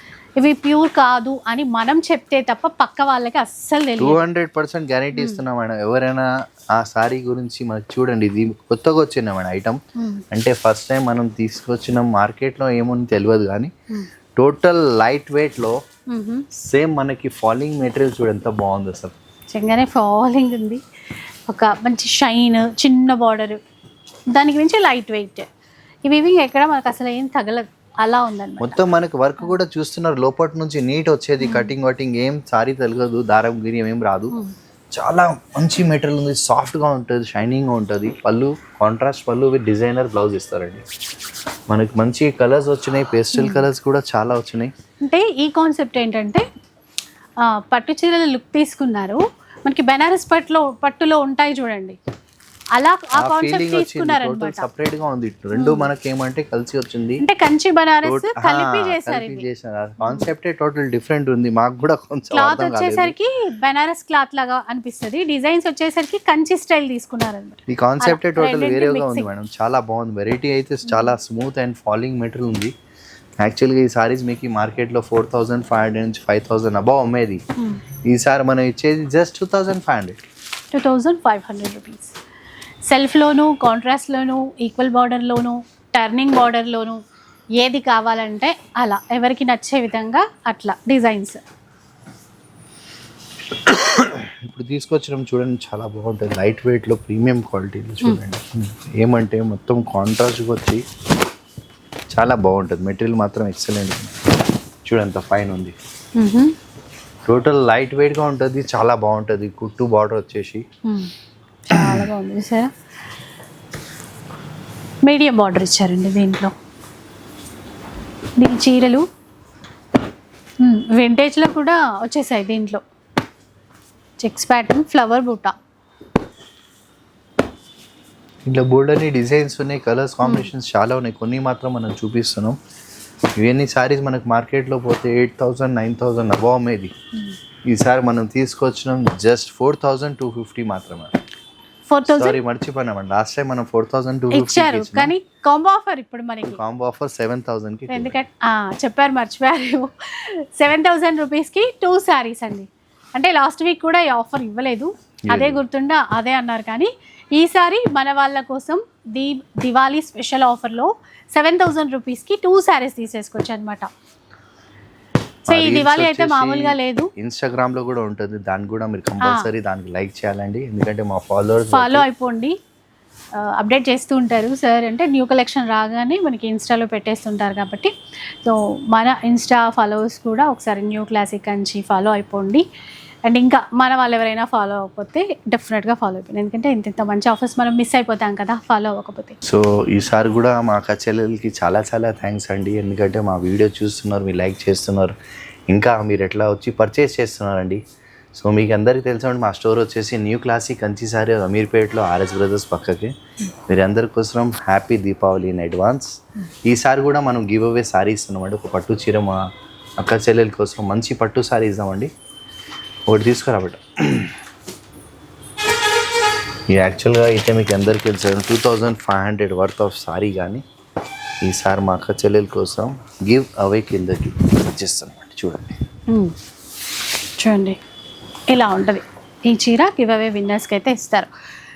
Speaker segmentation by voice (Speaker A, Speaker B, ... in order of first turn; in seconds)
Speaker A: 0.4-4.2, 5.1-5.4, 10.0-10.2, 16.1-16.5, 19.5-20.8, 21.5-23.6, 24.3-25.5, 26.1-28.8, 31.4-31.7, 43.4-43.7, 45.0-46.5, 47.4-52.0, 52.8-54.7, 55.5-55.9, 57.2-59.5, 60.0-60.3, 62.3-69.3, 70.9-71.2, 80.7-82.2, 82.8-87.0, 87.6-91.4, 106.2-106.5, 110.9-111.1, 111.7-112.7, 115.0-116.5, 118.4-119.0, 120.6-122.8, 124.2-125.5, 130.2-130.5, 141.9-142.4, 144.3-146.6, 147.9-163.9, 165.5-167.1, 171.7-172.6, 173.4-177.9, 178.4-182.6, 183.3-189.4, 226.1-226.3, 227.4-227.8, 228.5-231.3
Speaker B: 4.0-9.8, 10.3-13.7, 14.4-15.8, 16.5-19.1, 28.6-34.4, 35.0-40.8, 41.7-44.7, 53.2-57.2, 58.0-63.1, 67.7-72.7, 73.4-77.4, 78.1-80.2, 93.5-100.8, 102.1-104.2, 104.9-105.8, 107.3-110.7, 111.7-112.0, 128.4-132.6, 133.4-136.9, 137.7-141.1, 142.1-145.1, 146.5-148.2, 155.3-155.6, 165.5-172.1, 189.4-195.2, 195.7-197.8, 198.4-203.1, 203.7-206.1, 206.7-209.4, 210.0-212.1, 213.1-214.4, 216.7-220.6, 221.4-225.8